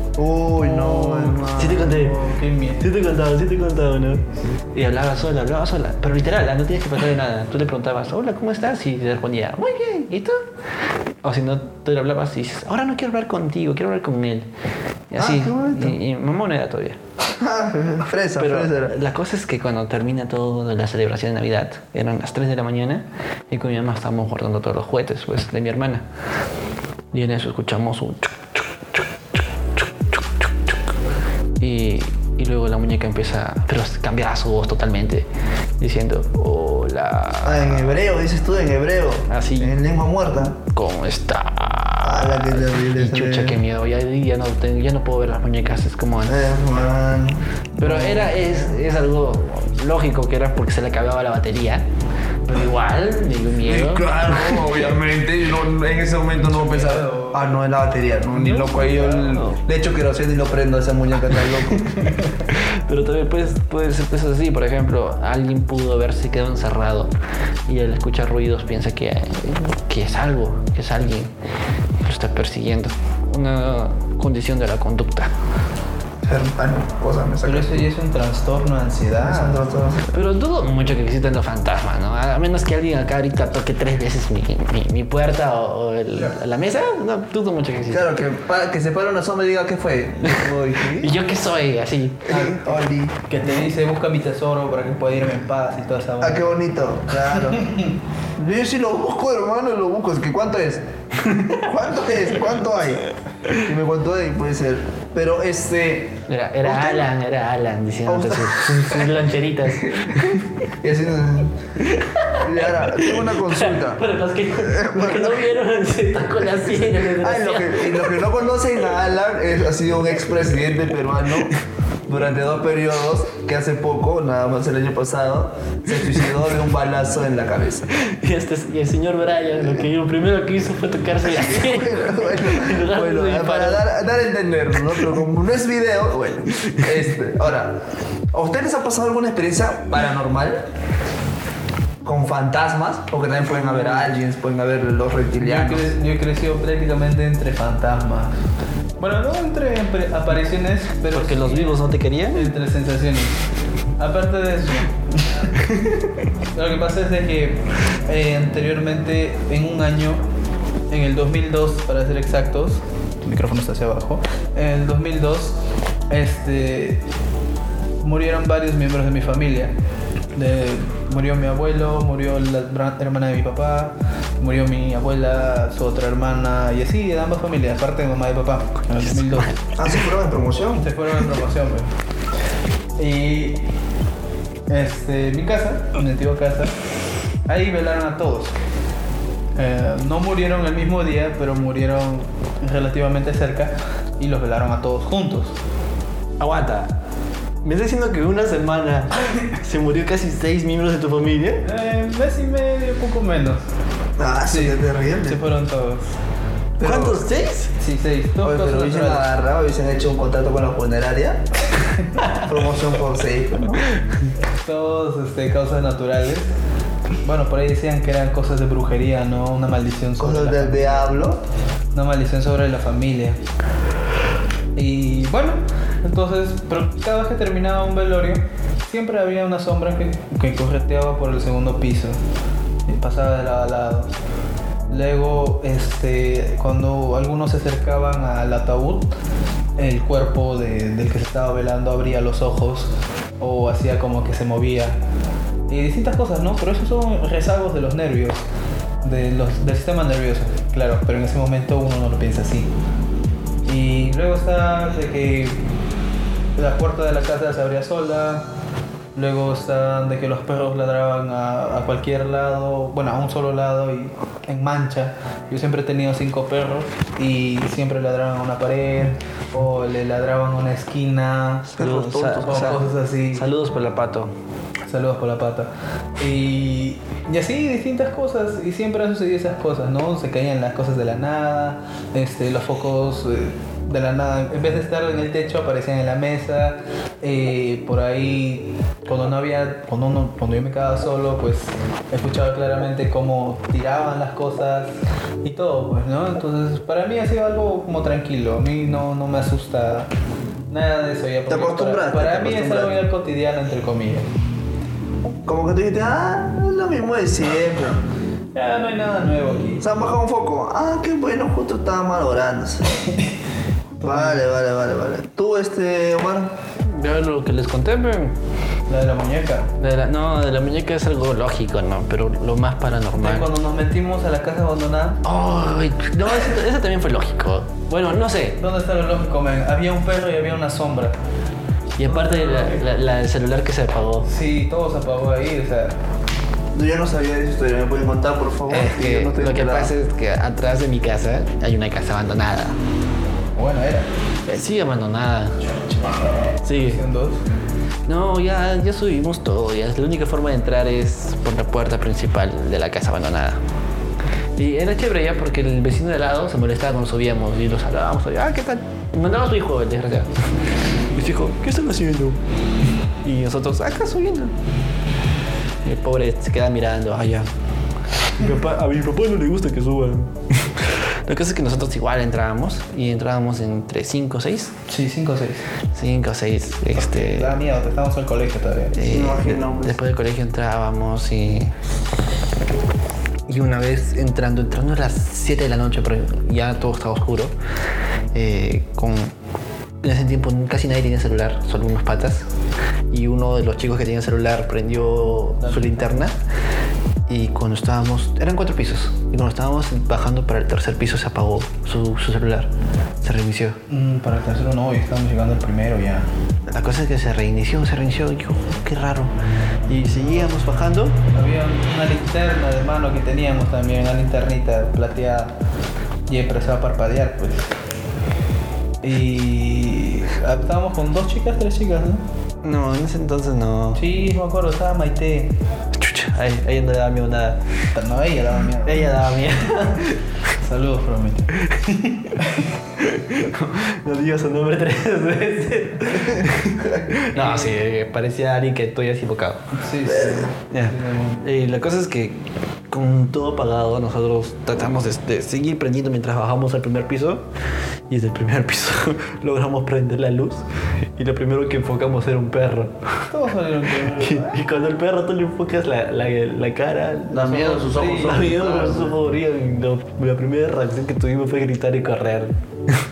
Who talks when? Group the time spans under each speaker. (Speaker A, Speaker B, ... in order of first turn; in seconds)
Speaker A: 0.2-1.9, 15.2-16.0, 17.4-18.9, 37.4-40.6, 42.0-43.6, 46.3-48.5, 53.6-61.9, 76.2-77.9, 79.2-80.1, 87.9-91.2, 92.3-93.2, 96.2-97.6, 98.4-107.1, 108.1-109.1, 109.8-111.5, 112.4-114.0, 114.6-115.4, 117.0-121.5, 122.1-127.9, 131.2-137.8, 138.3-140.7, 142.0-145.9, 179.8-180.9, 204.2-205.4, 206.8-207.3, 208.4-211.4, 212.3-213.9, 220.2-221.4, 271.7-272.8, 301.5-303.0, 305.5-308.0, 309.8-312.9, 314.0-316.5, 336.7-339.9, 379.0-380.0, 440.1-440.4, 457.3-459.1
Speaker B: 0.5-2.9, 56.5-57.5, 58.3-59.4, 77.4-79.7, 93.2-96.5, 97.3-97.9, 143.5-144.1, 145.4-148.4, 149.0-151.8, 152.3-153.4, 154.0-155.7, 156.5-160.2, 160.9-165.6, 166.1-167.0, 168.0-169.7, 170.3-179.6, 180.8-181.9, 183.0-183.6, 184.7-186.7, 187.5-188.6, 189.6-195.6, 201.7-203.6, 204.5-206.1, 207.8-209.2, 214.6-216.5, 217.2-221.2, 221.9-223.4, 224.8-232.2, 232.9-234.1, 234.9-239.1, 239.8-245.0, 245.7-248.4, 249.0-252.7, 253.7-255.6, 256.6-258.5, 259.1-273.5, 274.9-294.9, 295.4-300.1, 300.7-304.3, 308.6-309.8, 314.0-314.4, 318.9-319.7, 323.2-325.2, 328.6-331.1, 332.1-332.8, 334.3-335.9, 343.6-344.1, 346.8-347.4, 374.9-375.7, 376.9-379.0, 395.6-396.2, 403.9-406.3, 411.3-415.5, 416.3-417.7, 419.0-422.2, 424.0-425.5, 427.9-429.1, 430.6-432.6, 437.3-437.7, 439.8-441.4, 453.3-454.6, 457.5-458.9
Speaker C: 1.5-2.2, 2.8-10.4, 11.2-14.5, 15.1-17.0, 18.4-26.0, 27.1-29.0, 29.8-30.7, 31.6-35.3, 35.8-38.0, 39.3-39.8, 40.7-46.6, 47.8-51.9, 52.5-54.6, 59.3-59.6, 62.5-67.1, 67.7-71.3, 72.0-75.3, 80.1-88.1, 90.9-92.5, 106.3-110.4, 111.8-118.2, 127.9-133.8, 151.1-152.5, 179.0-179.5, 196.4-196.9, 197.6-201.6, 206.8-207.7, 271.8-272.8, 273.3-274.3, 316.8-318.3, 319.8-323.5, 325.2-328.6, 332.0-334.3, 338.7-342.8, 344.5-346.0, 346.6-347.0, 348.1-353.6, 354.6-360.3, 361.1-362.4, 363.2-364.5, 365.8-367.5, 368.3-374.7, 375.9-377.5, 378.9-381.7, 383.5-387.5, 388.3-389.3, 390.0-392.5, 393.1-396.4, 397.3-402.7, 403.2-403.8, 406.7-409.3, 409.9-411.1, 422.6-424.0, 425.9-427.6, 428.9-430.2, 433.0-439.6, 440.7-442.4, 442.9-447.4, 448.1-450.6, 451.2-453.1, 454.1-463.0